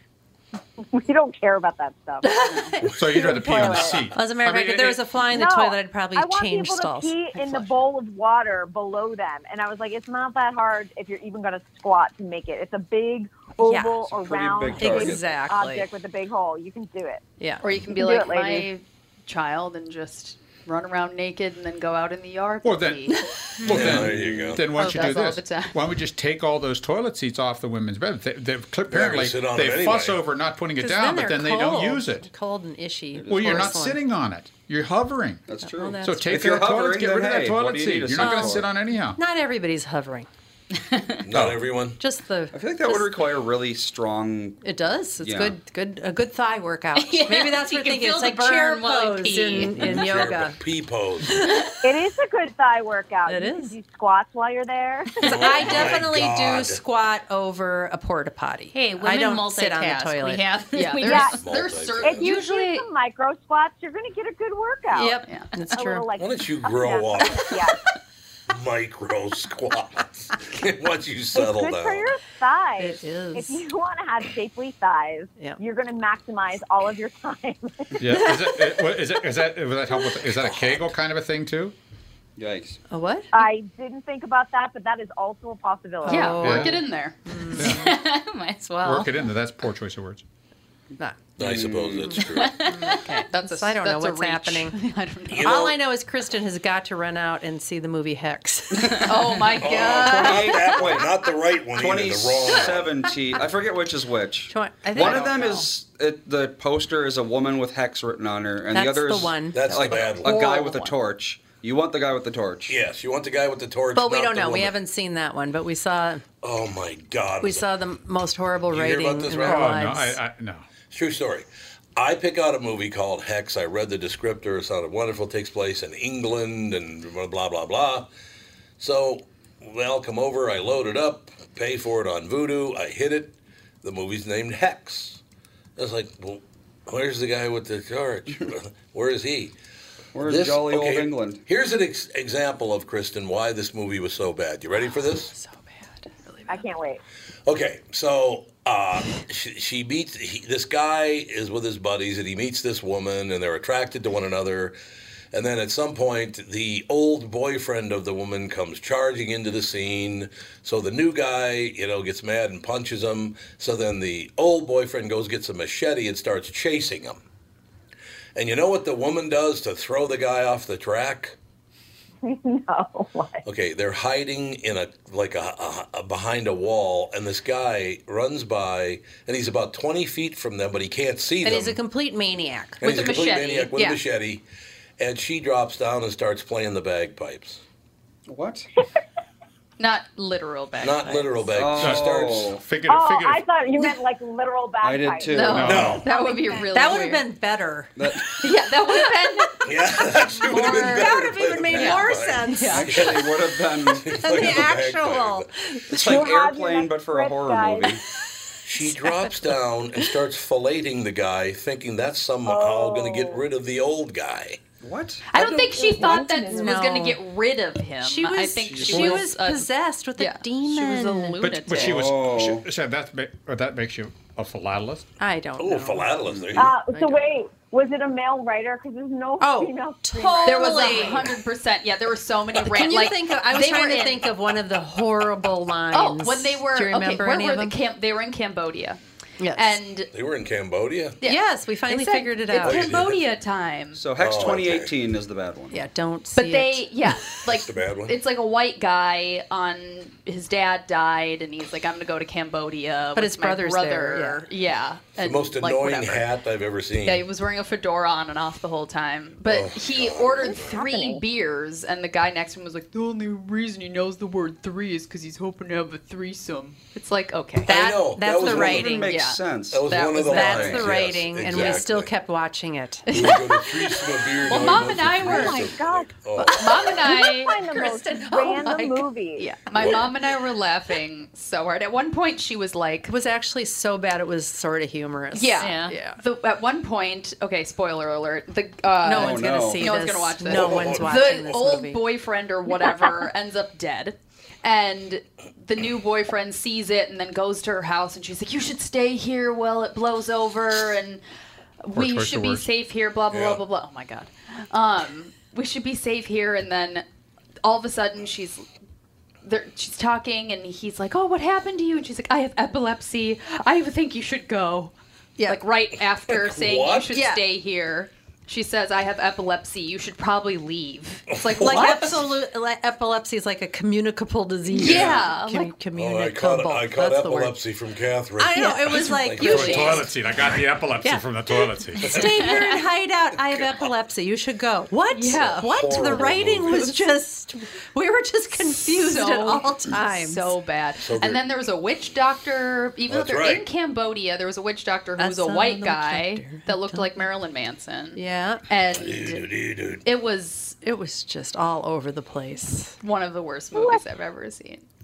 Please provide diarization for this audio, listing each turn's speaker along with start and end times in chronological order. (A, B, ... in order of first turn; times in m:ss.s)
0:00.8-0:02.3 A
0:02.2-0:07.7 B
0:02.4-0:02.8 C
0:02.9-0:05.0 D
0:03.1-0:04.1 A
0:05.3-0:17.2 A
0:13.6-0:14.0 B
0:14.0-0:15.4 E
0:14.8-0:15.9 B
0:17.6-0:23.2 C
0:17.9-0:18.7 A
0:22.6-0:32.3 D
0:23.7-0:24.7 F
0:23.8-0:24.6 E
0:24.7-0:25.8 C
0:24.8-0:25.2 B
0:28.9-0:30.2 F
0:30.8-0:34.0 B
0:33.1-0:33.8 E
0:33.3-0:35.4 D
0:35.4-0:38.7 E
0:35.6-0:36.4 B
0:36.0-0:39.2 D
0:38.2-0:40.3 B
0:41.2-0:42.0 F
0:41.3-0:41.6 D
0:42.0-0:43.2 B
0:42.5-0:44.6 E
0:44.6-0:50.6 B
0:45.2-0:45.6 E
0:46.9-0:49.9 G
0:49.8-0:51.3 F
0:51.2-0:51.8 B
0:51.8-0:55.7 A
0:53.3-0:53.7 B
0:55.2-1:00.4 B
0:55.2-0:56.8 F
0:58.7-1:01.4 G
1:00.7-1:02.8 C
1:01.0-1:01.4 A
1:01.4-1:02.3 F
1:02.0-1:05.2 A
1:04.9-1:06.1 B
1:05.7-1:07.8 A
1:06.2-1:07.6 F
1:08.5-1:12.1 F
1:11.3-1:18.3 A
1:12.8-1:13.6 B
1:18.0-1:21.7 D
1:18.1-1:18.8 B
1:22.4-1:22.8 E
1:22.9-1:23.3 B
1:23.3-1:26.6 A
1:26.0-1:27.8 B
1:26.1-1:27.2 C
1:26.4-1:26.7 D
1:27.6-1:27.9 D
1:27.6-1:29.2 G
1:28.8-1:30.2 D
1:31.4-1:32.2 E
1:31.4-1:32.6 F
1:32.1-1:34.8 B
1:32.3-1:33.0 G
1:32.9-1:35.6 C
1:35.3-1:35.8 F
1:35.4-1:39.4 B
1:38.8-1:39.0 E
1:39.0-1:40.6 C
1:39.6-1:42.9 F
1:39.8-1:41.2 E
1:40.1-1:40.8 B
1:41.7-1:52.8 E
1:44.5-1:45.6 B
1:45.0-1:45.6 C
1:48.7-1:49.8 B
1:49.5-1:50.4 F
1:50.2-1:50.9 C
1:50.3-1:50.9 B
1:52.7-1:54.8 F
1:53.9-1:56.2 B
1:56.4-1:57.7 F
1:57.4-2:00.2 B
1:58.7-1:59.8 F
1:59.3-2:00.6 D
2:00.9-2:08.1 F
2:08.8-2:15.2 F
2:15.8-2:19.5 F
2:20.1-2:21.4 E
2:20.2-2:25.3 F
2:24.9-2:26.5 B
2:26.5-2:27.0 A
2:27.4-2:34.8 F
2:35.3-2:47.2 F
2:48.3-2:51.4 F
2:52.2-2:53.4 A
2:53.4-3:01.8 F
3:01.4-3:02.8 B
3:02.8-3:03.9 C
3:02.8-3:04.4 F
3:05.0-3:07.6 F
3:08.3-3:08.7 E
3:09.8-3:11.5 C
3:10.8-3:12.5 F
3:11.5-3:12.6 E
3:11.8-3:13.4 D
3:12.9-3:16.7 A
3:14.8-3:15.9 E
3:15.3-3:17.2 C
3:15.5-3:16.0 D
3:15.6-3:16.0 F
3:16.1-3:17.9 B
3:18.0-3:18.3 E
3:18.4-3:19.7 C
3:18.4-3:19.5 B
3:19.6-3:25.5 F
3:20.4-3:23.1 B
3:21.7-3:22.8 C
3:22.7-3:24.3 E
3:24.1-3:26.3 B
3:25.9-3:28.0 E
3:25.9-3:28.0 A
3:28.6-3:34.6 F
3:28.8-3:30.1 B
3:32.4-3:33.4 A
3:34.8-3:35.3 E
3:35.3-3:42.0 C
3:35.4-3:36.7 A
3:35.9-3:37.2 B
3:38.0-3:41.6 B
3:38.7-3:39.2 E
3:41.4-3:45.1 D
3:41.8-3:42.7 E
3:45.2-3:46.2 B
3:45.6-3:46.7 F
3:46.3-3:46.6 E
3:46.6-3:51.3 A
3:46.8-3:47.2 B
3:49.4-3:51.4 B
3:50.4-3:54.3 C
3:52.6-3:57.7 B
3:55.9-3:59.0 C
3:59.4-3:59.8 B
3:59.5-4:00.1 C
4:00.1-4:01.2 F
4:01.2-4:04.0 C
4:01.2-4:03.0 B
4:02.6-4:03.2 F
4:03.9-4:05.8 E
4:04.2-4:04.9 F
4:05.7-4:06.9 B
4:06.3-4:16.3 C
4:07.4-4:08.2 F
4:13.1-4:14.5 B
4:15.2-4:17.2 F
4:17.0-4:27.9 C
4:19.4-4:20.8 F
4:20.4-4:21.2 A
4:27.6-4:29.2 B
4:27.7-4:28.9 F
4:28.2-4:30.9 E
4:28.8-4:30.7 C
4:29.7-4:32.1 F
4:30.2-4:33.3 B
4:33.1-4:35.7 C
4:33.1-4:36.8 F
4:34.5-4:36.1 A
4:36.4-4:37.6 C
4:36.8-4:39.4 A
4:37.0-4:39.7 B
4:39.4-4:43.1 C
4:39.8-4:40.0 F
4:43.1-4:46.2 B
4:45.3-5:01.2 C
4:45.6-4:46.0 G
4:49.0-4:52.0 B
4:49.1-4:50.0 E
4:50.5-4:51.4 F
4:50.5-4:50.8 E
5:01.8-5:07.0 C
5:01.9-5:02.7 D
5:03.3-5:03.6 F
5:07.6-5:08.7 C
5:09.4-5:14.9 C
5:15.4-5:15.6 B
5:15.4-5:22.2 C
5:16.3-5:17.2 F
5:17.1-5:17.4 B
5:21.3-5:22.1 F
5:21.6-5:27.6 B
5:24.7-5:25.7 C
5:24.8-5:25.2 F
5:26.0-5:30.5 F
5:28.4-5:30.1 B
5:28.6-5:30.0 C
5:29.4-5:32.2 D
5:32.0-5:40.5 B
5:32.0-5:32.8 F
5:33.5-5:33.8 F
5:35.1-5:37.0 C
5:35.3-5:36.9 F
5:38.6-5:49.5 C
5:41.0-5:41.4 F
5:43.1-5:43.6 F
5:45.2-5:47.1 B
5:48.1-5:48.6 B
5:48.9-5:50.0 F
5:50.0-5:50.8 C
5:50.8-5:52.9 B
5:53.0-5:54.8 C
5:53.7-5:54.0 A